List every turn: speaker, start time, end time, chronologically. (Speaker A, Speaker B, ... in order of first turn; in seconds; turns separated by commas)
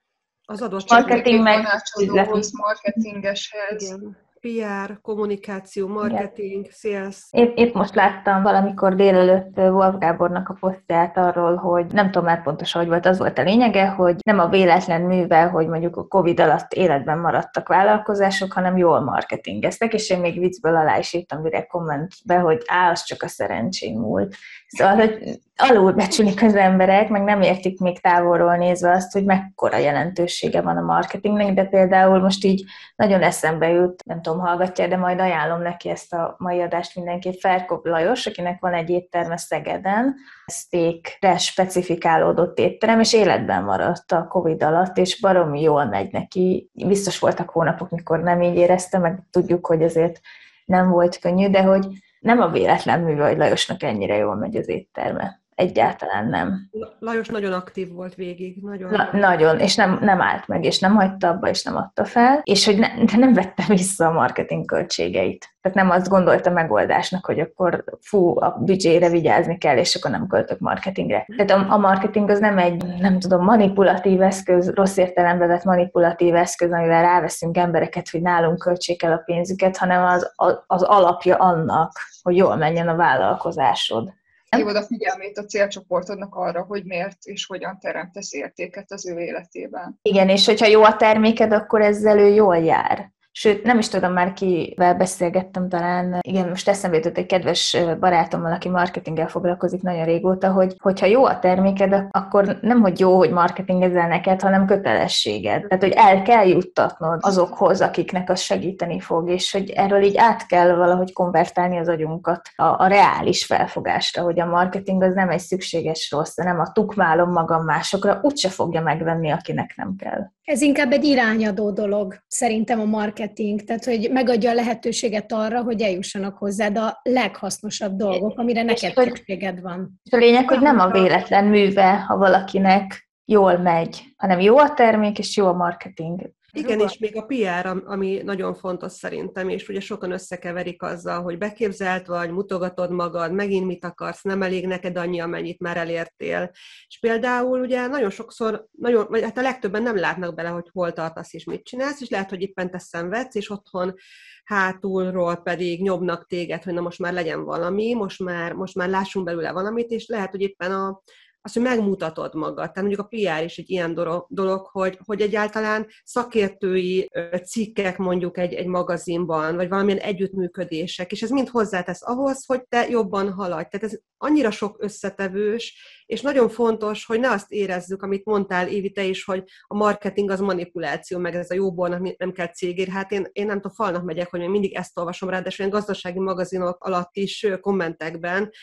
Speaker A: 0.5-1.6, Speaker B: 0.9-2.5, Speaker C: 0.9-3.9, Speaker A: 3.7-7.3, Speaker B: 7.3-56.6, Speaker A: 56.7-59.1, Speaker B: 58.9-84.7, Speaker C: 84.5-90.0, Speaker B: 90.0-120.3, Speaker D: 120.5-129.9, Speaker B: 128.1-129.2, Speaker B: 130.1-136.9, Speaker A: 136.5-153.9, Speaker A: 154.5-188.5